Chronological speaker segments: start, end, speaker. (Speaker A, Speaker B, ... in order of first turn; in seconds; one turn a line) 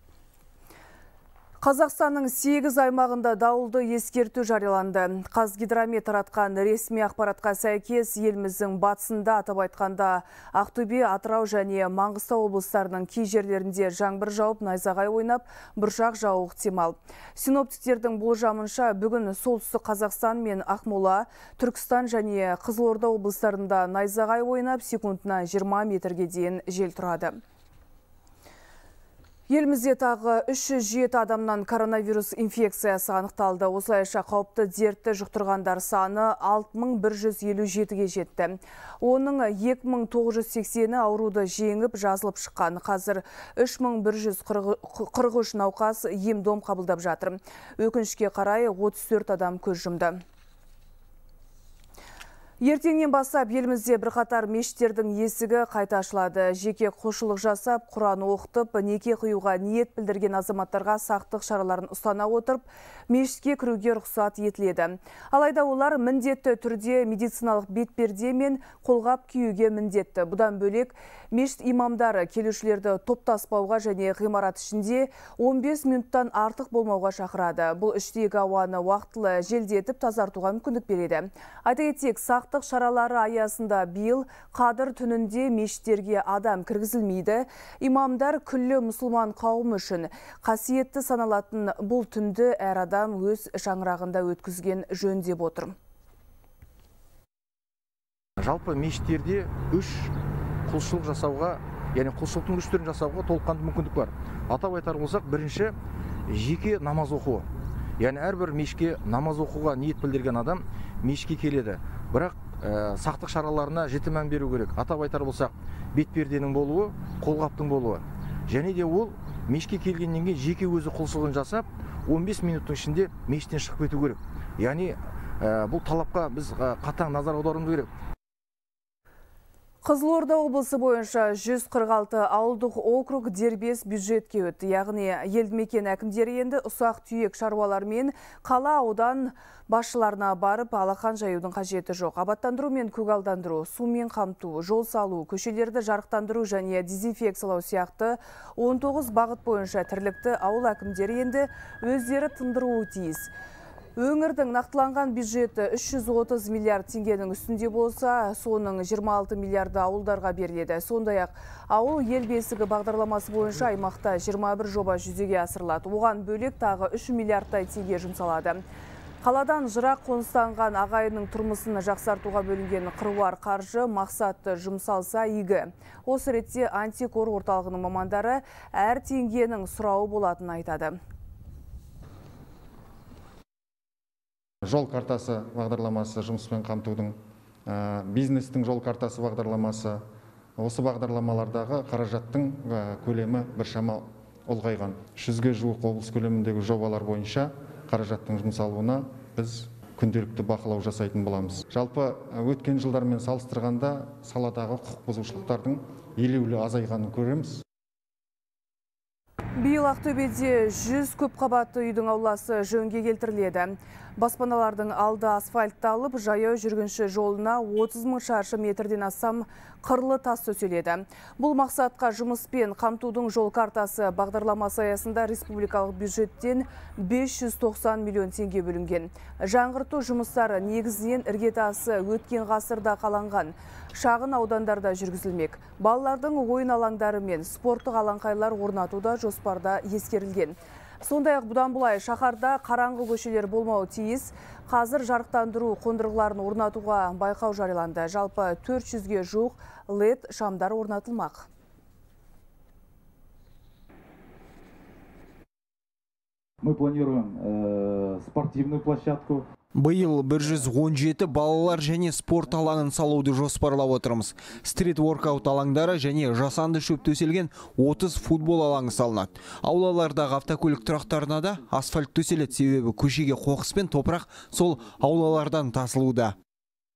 Speaker A: 1.6-27.4
Speaker A: 29.5-50.2
Speaker A: 52.6-95.8
Speaker B: 98.4-99.9
Speaker C: 98.5-100.1
Speaker C: 100.7-101.5
Speaker B: 100.7-105.7
Speaker C: 102.2-104.0
Speaker C: 104.5-105.7
Speaker C: 106.4-107.4
Speaker B: 106.4-107.4
Speaker B: 108.0-110.5
Speaker C: 108.0-112.6
Speaker B: 111.0-113.8
Speaker C: 113.2-115.5
Speaker B: 114.5-116.2
Speaker C: 116.0-117.8
Speaker B: 116.7-118.0
Speaker B: 118.5-118.8
Speaker C: 118.5-119.1
Speaker B: 119.5-124.9
Speaker C: 119.7-121.6
Speaker C: 122.3-124.9
Speaker B: 125.4-127.9
Speaker C: 125.7-126.1
Speaker C: 127.1-127.4
Speaker A: 129.8-153.3
Speaker A: 154.0-168.6
Speaker A: 169.2-181.0
Speaker D: 184.7-190.0
Speaker D: 190.6-207.6
Speaker A: 209.6-251.5
Speaker E: 256.6-259.4
Speaker C: 259.8-276.3
Speaker B: 266.7-267.1
Speaker B: 267.8-268.7
Speaker B: 271.0-271.8
Speaker B: 272.6-272.9
Speaker B: 274.7-275.5